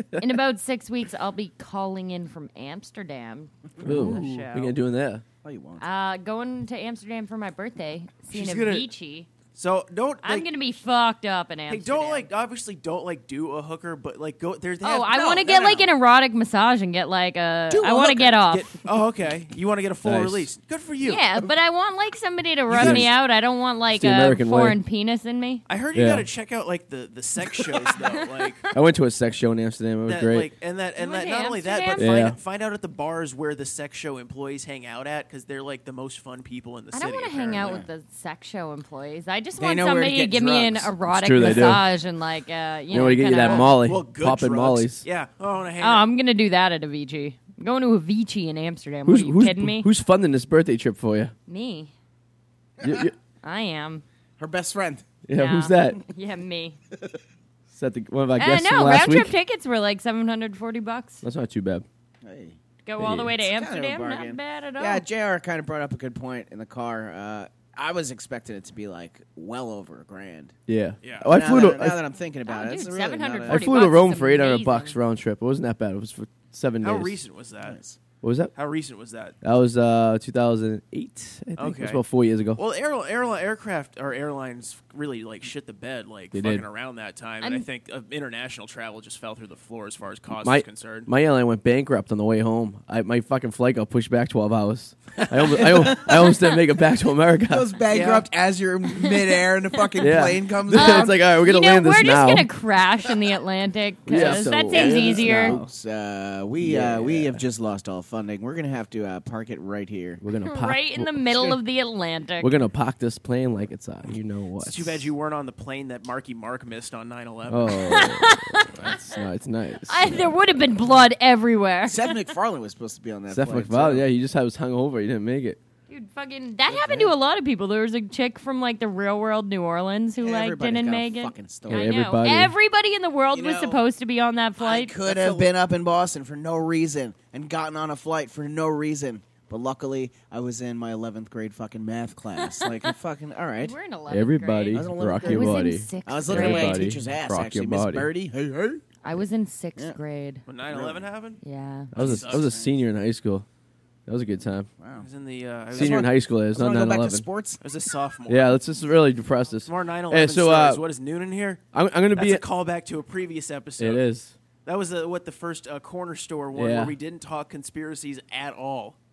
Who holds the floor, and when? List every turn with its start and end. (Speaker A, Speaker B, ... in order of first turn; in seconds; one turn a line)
Speaker A: 0.2-4.7
Speaker B: 3.8-4.0
Speaker C: 3.8-5.2
Speaker D: 4.0-4.4
Speaker B: 5.4-5.8
Speaker A: 5.8-9.3
Speaker D: 8.3-8.9
Speaker D: 9.6-10.5
Speaker A: 10.2-12.3
Speaker D: 11.7-15.1
Speaker A: 14.8-18.8
Speaker B: 15.0-15.9
Speaker B: 17.7-18.3
Speaker D: 18.3-21.2
Speaker C: 20.0-20.5
Speaker A: 21.1-25.6
Speaker D: 22.7-23.1
Speaker C: 22.8-23.1
Speaker C: 24.0-24.8
Speaker D: 25.7-28.6
Speaker C: 25.9-26.3
Speaker A: 27.9-28.3
Speaker C: 28.7-30.5
Speaker D: 30.1-37.8
Speaker A: 31.0-32.1
Speaker C: 32.0-32.4
Speaker A: 36.9-43.7
Speaker B: 39.6-41.0
Speaker C: 41.1-41.9
Speaker C: 42.9-45.0
Speaker D: 43.5-46.1
Speaker A: 45.8-49.9
Speaker C: 49.1-51.3
Speaker A: 51.5-51.9
Speaker C: 52.8-53.1
Speaker A: 53.4-54.0
Speaker B: 54.4-55.0
Speaker C: 55.3-56.0
Speaker A: 55.4-56.8
Speaker C: 57.7-59.3
Speaker A: 58.4-61.2
Speaker C: 61.2-61.9
Speaker B: 62.2-62.6
Speaker A: 62.9-65.0
Speaker C: 63.0-63.3
Speaker B: 63.4-70.5
Speaker C: 70.7-72.0
Speaker D: 71.0-71.3
Speaker B: 71.3-73.8
Speaker A: 72.5-75.0
Speaker C: 73.5-77.2
Speaker D: 76.8-77.8
Speaker B: 77.6-78.0
Speaker C: 78.2-78.5
Speaker D: 78.5-79.4
Speaker C: 79.4-82.6
Speaker D: 81.6-82.0
Speaker D: 82.6-91.1
Speaker C: 86.3-86.7
Speaker A: 87.4-87.7
Speaker C: 90.4-97.8
Speaker D: 95.2-95.9
Speaker B: 97.5-101.2
Speaker D: 97.9-98.3
Speaker C: 100.0-102.5
Speaker A: 100.7-105.5
Speaker C: 104.1-105.7
Speaker B: 104.1-110.2
Speaker C: 106.6-107.4
Speaker C: 110.2-111.6
Speaker A: 110.4-112.5
Speaker C: 112.4-115.1
Speaker D: 114.6-117.9
Speaker C: 117.5-120.3
Speaker A: 117.8-119.2
Speaker A: 119.9-122.2
Speaker B: 121.8-124.0
Speaker C: 123.3-125.6
Speaker A: 125.9-134.9
Speaker B: 126.7-127.2
Speaker B: 130.2-131.9
Speaker C: 131.7-132.5
Speaker B: 133.3-133.8
Speaker B: 134.6-143.8
Speaker D: 135.1-135.5
Speaker A: 143.6-146.9
Speaker C: 144.1-148.1
Speaker B: 144.7-148.8
Speaker A: 149.0-150.4
Speaker D: 150.5-151.4
Speaker B: 150.7-151.1
Speaker A: 151.4-151.9
Speaker D: 151.9-152.6
Speaker B: 151.9-152.7
Speaker C: 151.9-153.5
Speaker C: 154.1-154.7
Speaker B: 154.8-155.1
Speaker D: 155.0-156.1
Speaker B: 155.7-157.6
Speaker C: 155.7-157.3
Speaker D: 157.6-158.6
Speaker C: 158.3-160.8
Speaker D: 159.7-164.1
Speaker C: 161.7-162.4
Speaker C: 163.8-164.3
Speaker D: 164.7-168.9
Speaker C: 166.6-166.9